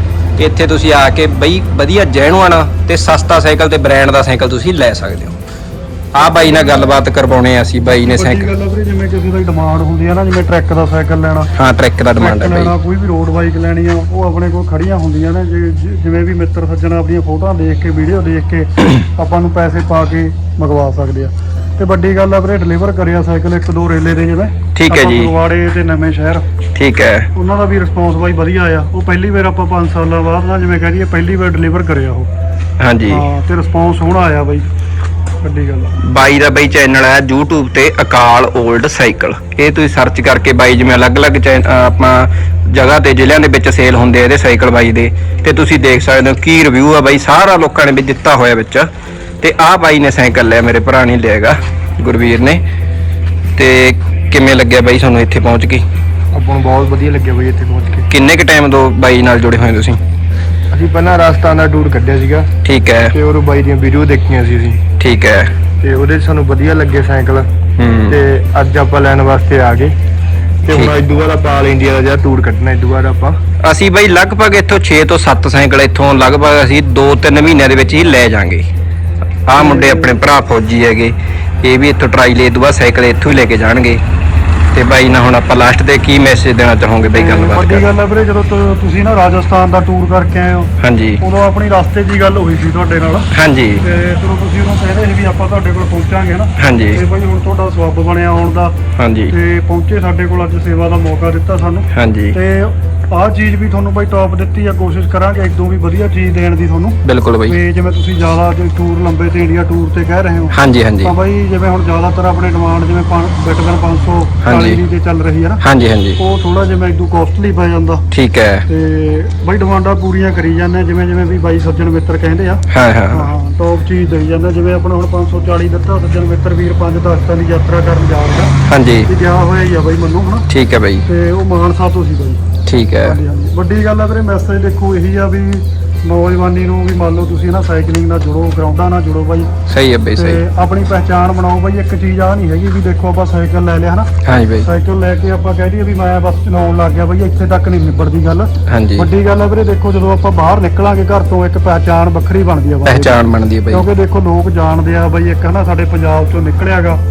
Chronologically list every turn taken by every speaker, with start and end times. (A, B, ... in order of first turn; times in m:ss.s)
0:00.4-0:05.4 A
0:06.2-0:08.5 A
0:06.2-0:06.9 B
0:07.9-0:11.5 B
0:11.5-0:12.7 A
0:12.2-0:26.4 B
0:24.7-0:25.3 A
0:26.8-0:27.3 A
0:27.3-0:32.3 B
0:32.8-0:33.2 A
0:33.1-0:34.6 B
0:35.4-0:36.0 B
0:36.0-0:48.9 A
0:49.4-0:52.6 A
0:53.6-0:55.8 A
0:56.3-0:58.1 C
0:58.1-1:00.0 A
1:00.7-1:02.5 C
1:02.6-1:03.1 A
1:03.1-1:04.9 C
1:05.0-1:05.5 A
1:05.8-1:07.5 C
1:07.8-1:08.2 A
1:08.1-1:10.0 C
1:10.6-1:13.4 C
1:10.7-1:11.0 A
1:13.6-1:18.7 A
1:19.5-1:24.0 A
1:19.5-1:20.2 B
1:24.7-1:27.9 A
1:27.1-1:33.3 B
1:30.8-1:31.2 A
1:33.3-1:33.8 A
1:33.8-1:38.8 B
1:36.6-1:37.0 A
1:39.0-1:39.3 A
1:39.3-1:55.6 B
1:41.9-1:42.4 A
1:47.0-1:47.6 A
1:50.5-1:51.1 A
1:54.4-1:54.8 A
1:55.6-1:56.2 A
1:56.2-1:58.0 B
1:58.1-1:58.6 A
1:58.7-2:08.5 B
2:02.7-2:03.3 A
2:08.7-2:09.1 A
2:09.0-2:10.5 B
2:10.5-2:11.0 A
2:11.0-2:12.4 B
2:12.6-2:13.2 A
2:13.0-2:19.5 B
2:19.7-2:20.4 A
2:20.2-2:24.1 B
2:24.2-2:24.7 A
2:24.6-2:33.2 B
2:28.7-2:29.1 A
2:32.8-2:33.8 A
2:33.7-2:37.0 B